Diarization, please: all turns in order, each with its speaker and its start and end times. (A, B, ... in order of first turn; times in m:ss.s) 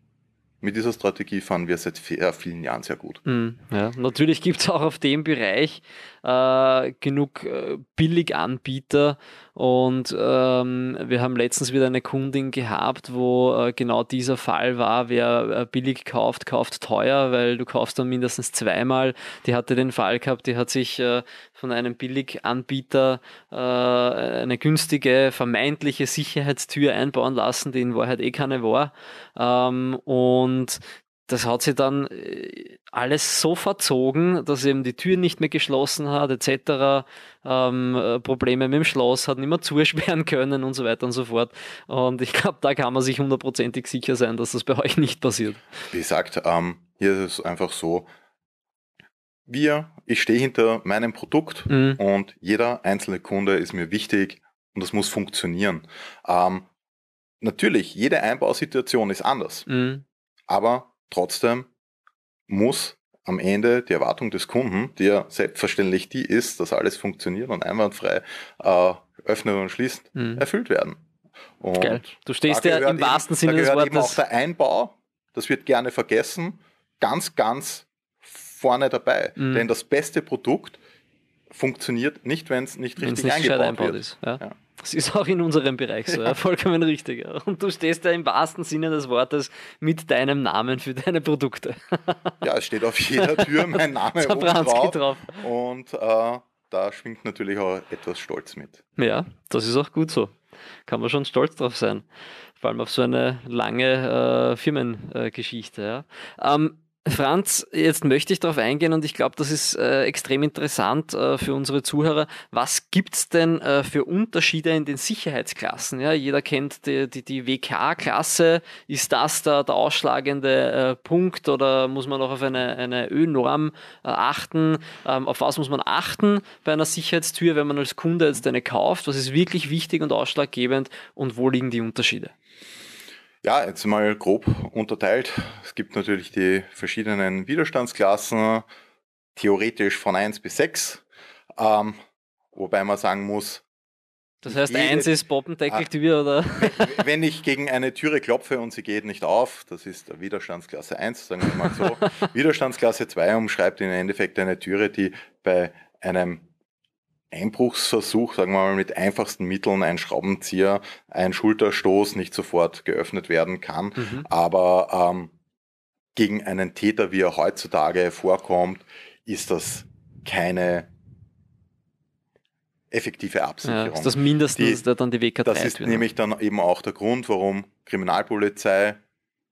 0:00.6-0:03.2 A
0:03.2-0:45.6 B
0:45.9-0:48.1 A
0:49.5-0:56.6 A
0:51.7-0:52.0 B
0:57.4-0:59.7 A
0:59.7-1:00.0 B
1:00.5-1:01.7 A
1:02.5-1:11.0 A
1:10.1-1:10.4 B
1:11.6-1:20.8 A
1:11.8-1:14.2 B
1:19.4-1:19.6 B
1:21.5-1:24.5 A
1:23.0-1:32.3 B
1:26.1-1:26.3 A
1:32.4-1:38.8 A
1:33.2-1:35.4 B
1:39.0-1:40.3 B
1:40.8-1:42.0 B
1:42.6-2:12.3 B
2:13.4-2:18.6 A
2:19.4-2:21.0 A
2:21.6-2:22.0 A
2:22.5-2:23.6 A
2:24.4-2:27.0 B
2:24.4-2:25.9 A
2:26.5-2:36.4 A
2:37.3-2:45.3 A
2:44.0-2:44.3 B
2:46.2-2:50.9 A
2:52.9-2:54.8 A
2:53.6-2:56.1 B
2:55.4-2:59.0 A